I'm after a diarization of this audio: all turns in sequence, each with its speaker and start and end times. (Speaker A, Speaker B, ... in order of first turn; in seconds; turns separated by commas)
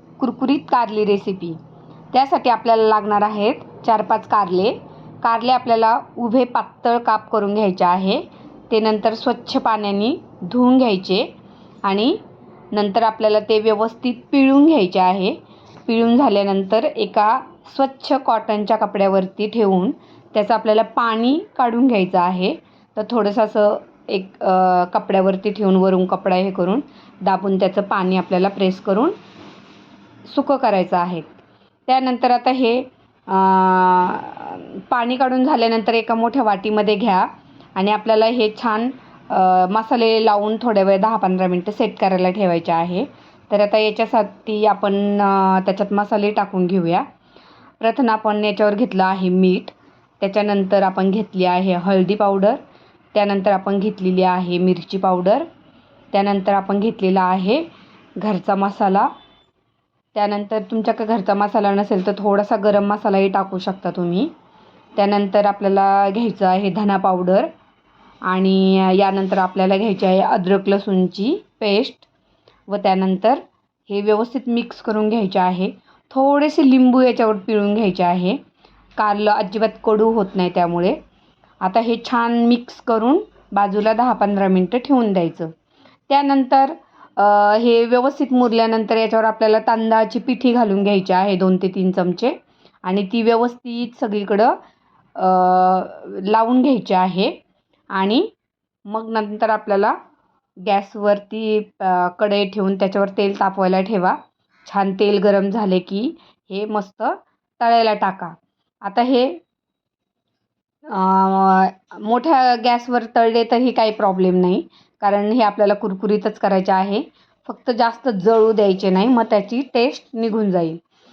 Speaker A: 0.2-1.6, Speaker A: 2.1-11.3, Speaker A: 11.8-12.2, Speaker A: 12.7-29.2, Speaker A: 30.2-31.3, Speaker A: 31.9-47.1, Speaker A: 47.8-52.6, Speaker A: 53.1-55.5, Speaker A: 56.1-57.7, Speaker A: 58.2-59.1, Speaker A: 60.1-64.3, Speaker A: 65.0-67.5, Speaker A: 68.2-72.1, Speaker A: 72.7-78.4, Speaker A: 79.0-81.0, Speaker A: 81.6-85.5, Speaker A: 86.1-94.6, Speaker A: 95.2-97.3, Speaker A: 97.9-98.3, Speaker A: 98.9-100.0, Speaker A: 100.6-109.4, Speaker A: 110.9-120.8